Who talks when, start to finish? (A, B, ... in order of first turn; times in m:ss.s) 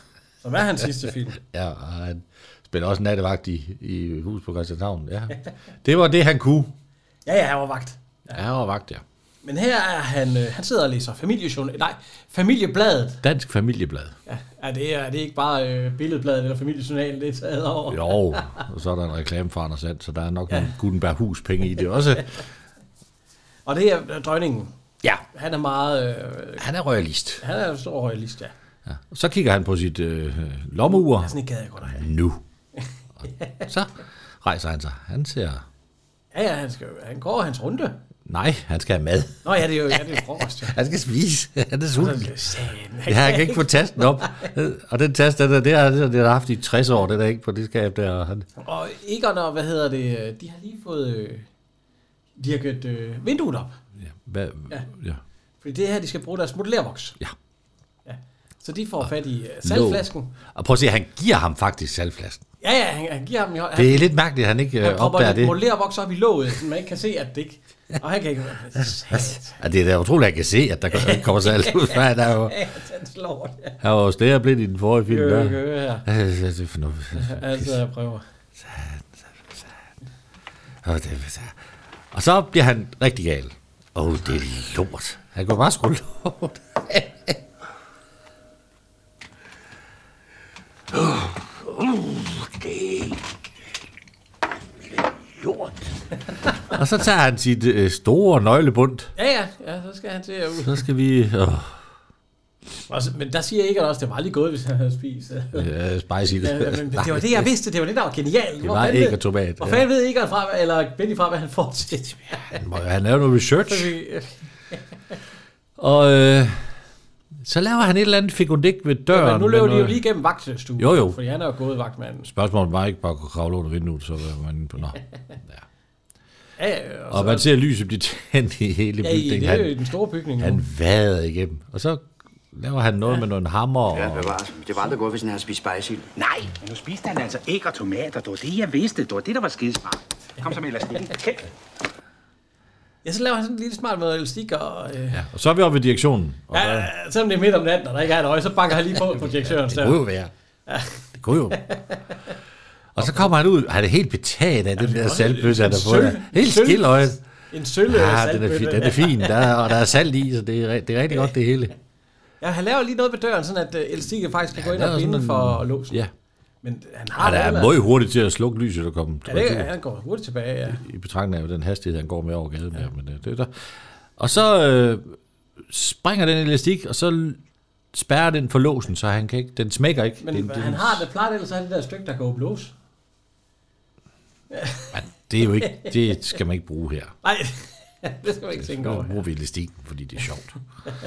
0:00.4-0:01.4 A
0:01.4-0:06.7 B
0:07.3-0:08.4 A
0:08.3-0:09.0 B
0:09.4-0:13.2 A
0:13.2-0:14.2 B
0:14.3-0:18.6 A
0:17.9-0:22.4 B
0:23.7-0:24.7 A
0:25.3-0:26.6 A
0:26.6-0:27.4 B
0:27.4-0:28.5 A
0:28.9-0:32.4 B
0:31.0-0:32.1 A
0:32.8-0:33.6 A
0:33.7-0:35.6 B
0:36.3-0:38.0 A
0:38.3-0:42.3 B
0:39.4-0:40.8 A
0:42.0-0:44.5 A
0:43.1-0:48.5 B
0:48.6-0:51.5 A
0:52.4-0:53.8 A
0:54.0-0:55.2 B
0:55.6-0:57.2 A
0:58.1-1:00.3 A
0:59.6-1:02.4 B
1:02.6-1:04.1 A
1:03.8-1:05.6 B
1:04.8-1:09.6 A
1:09.1-1:12.6 B
1:10.9-1:13.8 A
1:13.8-1:17.8 B
1:15.1-1:16.0 A
1:17.2-1:18.2 A
1:18.6-1:19.6 B
1:20.8-1:21.6 B
1:22.1-1:27.4 B
1:30.9-1:33.2 B
1:35.4-1:35.8 B
1:36.7-1:39.1 B
1:39.2-1:40.8 A
1:40.6-1:41.8 B
1:42.9-1:45.7 A
1:45.5-1:47.5 B
1:46.4-1:52.5 A
1:48.6-1:49.9 B
1:52.5-1:53.9 B
1:53.6-1:54.8 A
1:55.8-1:56.7 B
1:57.4-2:00.0 B
1:59.1-2:02.3 A
2:00.8-2:01.2 B
2:02.3-2:05.0 B
2:06.6-2:07.5 A
2:07.1-2:09.8 B
2:09.0-2:10.6 A
2:10.4-2:14.3 B
2:13.9-2:16.1 C
2:16.2-2:21.5 D
2:23.0-2:25.2 A
2:25.1-2:26.9 B
2:26.5-2:30.0 A
2:29.3-2:30.3 B
2:30.7-2:31.0 A
2:31.2-2:31.6 B
2:31.6-2:32.0 A
2:33.0-2:37.2 B
2:33.0-2:33.3 A
2:34.8-2:39.7 A
2:37.9-2:41.7 B
2:42.4-2:46.0 A
2:44.5-2:46.1 B
2:46.6-2:47.8 A
2:47.2-2:49.7 B
2:49.3-2:50.8 A
2:50.7-2:53.5 B
2:54.2-2:55.2 B
2:55.7-2:57.4 B
2:57.9-3:01.0 B
3:00.2-3:02.7 A
3:04.5-3:04.9 A
3:04.9-3:07.1 B
3:05.6-3:05.9 A
3:07.2-3:09.2 A
3:08.6-3:10.5 B